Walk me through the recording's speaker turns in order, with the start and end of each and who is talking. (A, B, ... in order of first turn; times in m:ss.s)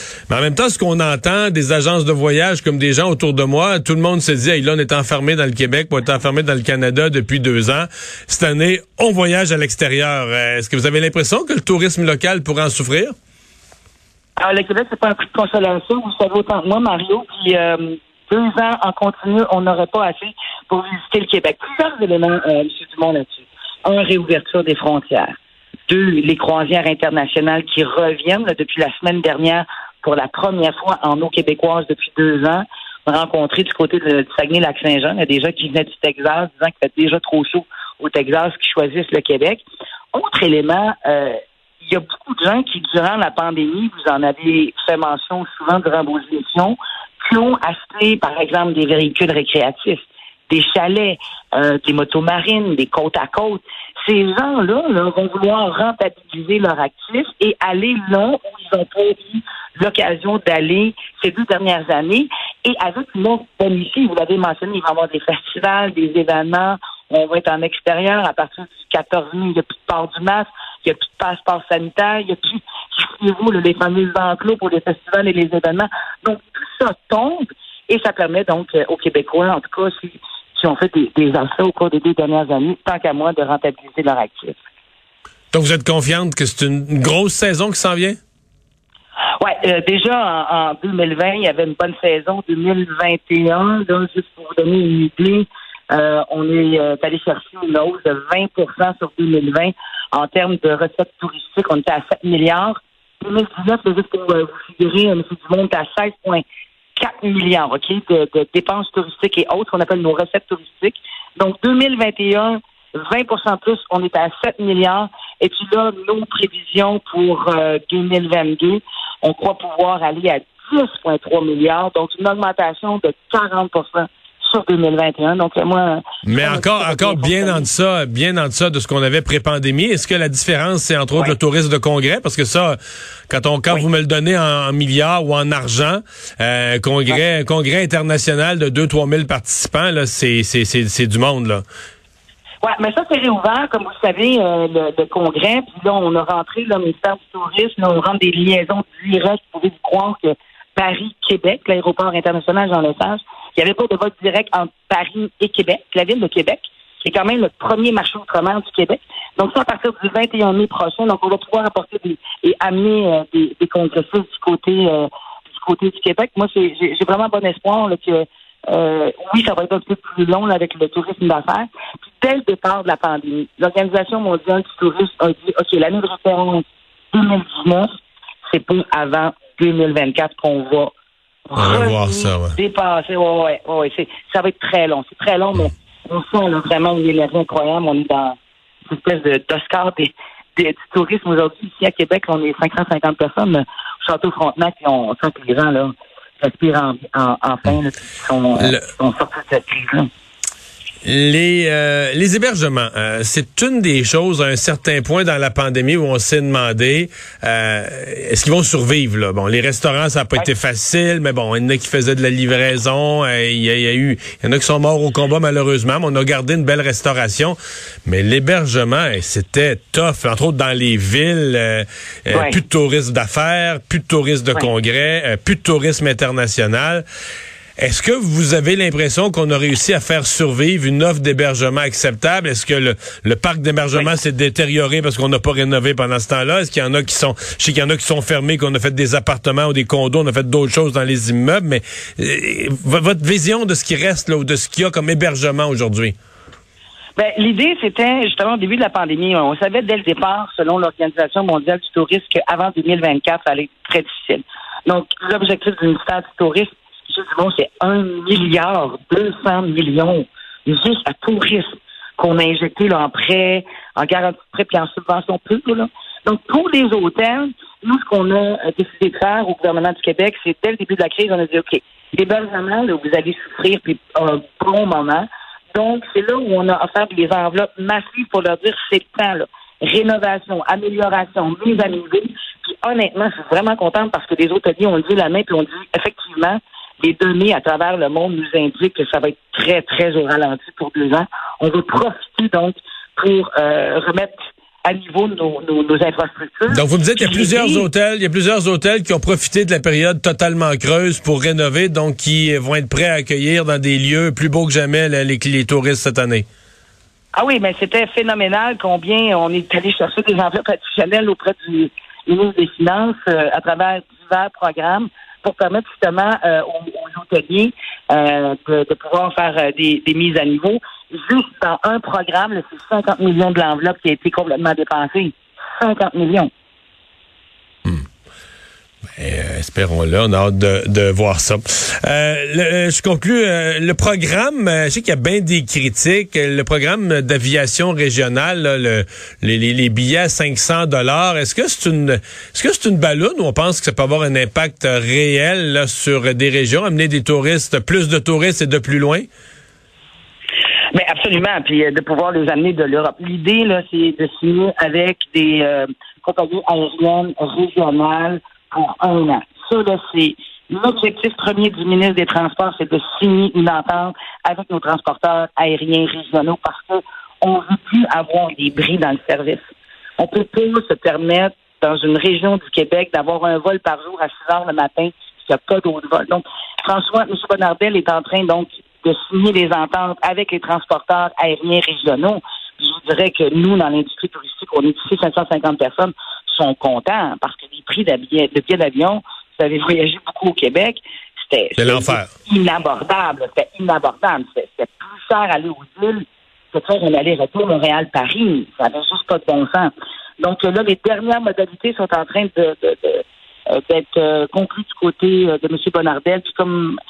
0:00.3-0:13.1 A
0:14.4-0:25.4 B
0:25.9-1:24.6 B
1:25.5-1:28.2 A
1:29.4-1:46.4 B
1:47.0-2:07.7 B
2:06.2-2:12.8 A
2:13.3-2:21.6 A
2:22.6-2:57.9 B
2:58.5-3:00.9 B
3:01.5-3:20.1 B
3:01.6-3:02.6 A
3:21.0-3:47.0 A
3:42.3-3:42.6 B
3:47.8-4:06.2 A
4:07.2-4:57.9 B
4:56.7-5:06.5 A
5:07.3-5:26.5 B
5:29.2-5:49.3 A
5:50.9-6:09.6 B
6:10.2-6:47.0 B
6:31.8-6:32.3 A